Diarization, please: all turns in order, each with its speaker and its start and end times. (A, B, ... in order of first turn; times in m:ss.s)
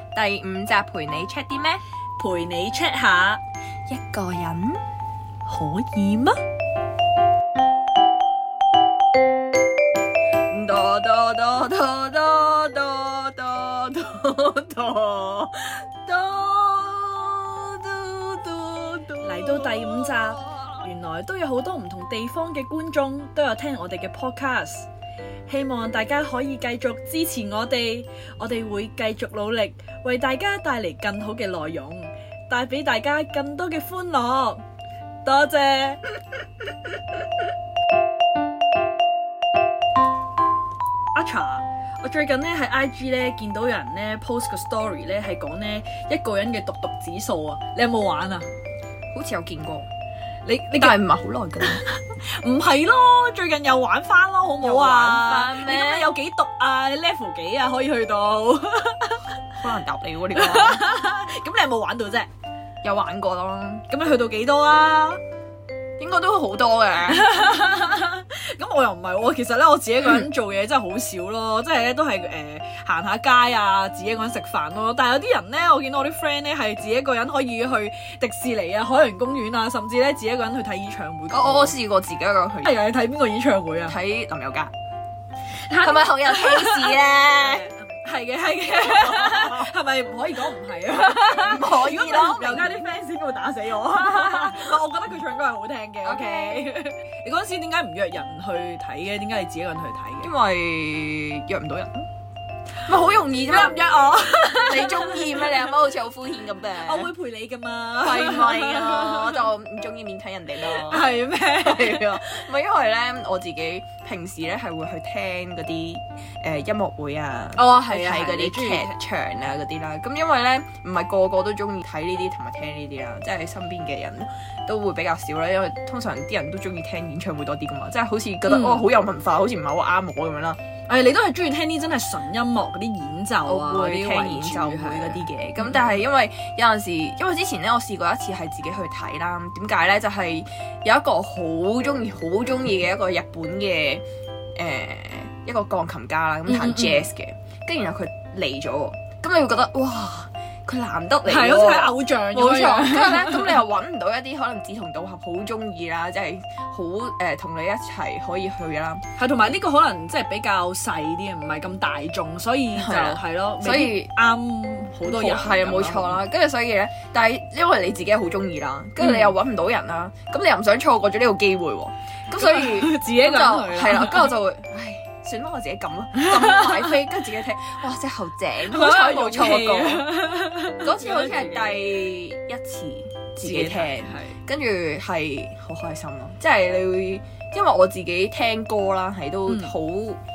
0:00.2-0:01.8 A
0:02.2-0:03.4 B
0:03.9-0:04.8 A
0:05.5-0:06.4 B
0:10.5-0:20.8 A
0:19.2-0:24.9 B
0:25.5-0:34.6 B
0:35.2-0:36.0 B
0:41.1-0:48.5 B
0:49.1-0:49.9 A
0:50.5-0:51.0 B
0:50.8-0:51.8 A
0:51.8-0:59.3 B
0:54.6-0:56.2 A
0:59.6-1:00.9 A
1:00.3-1:02.3 B
1:02.8-1:03.8 A
1:03.9-1:05.2 B
1:06.0-1:07.3 A
1:07.1-1:21.8 B
1:21.3-1:22.8 A
1:22.6-1:24.0 B
1:23.9-1:24.7 A
1:25.7-1:40.3 B
1:25.8-1:27.7 A
1:28.8-1:29.7 A
1:31.0-1:32.8 A
1:34.0-1:34.7 A
1:36.0-1:36.7 A
1:40.2-1:42.1 A
1:42.9-1:43.9 A
1:43.5-1:45.7 B
1:44.4-1:47.1 A
1:46.8-1:49.4 B
1:48.0-2:10.6 A
1:50.6-1:52.2 B
1:57.6-1:58.9 B
2:08.5-2:08.9 B
2:10.9-2:15.3 B
2:13.4-2:24.0 A
2:24.6-2:39.0 A
2:26.5-2:27.1 B
2:31.2-2:33.6 B
2:39.2-2:46.2 B
2:42.8-2:44.1 A
2:45.0-3:00.1 A
2:49.0-2:49.3 B
2:52.4-2:54.4 B
2:56.2-2:56.8 B
2:58.7-3:01.9 B
3:00.7-3:10.2 A
3:03.4-3:04.3 B
3:09.5-3:09.7 B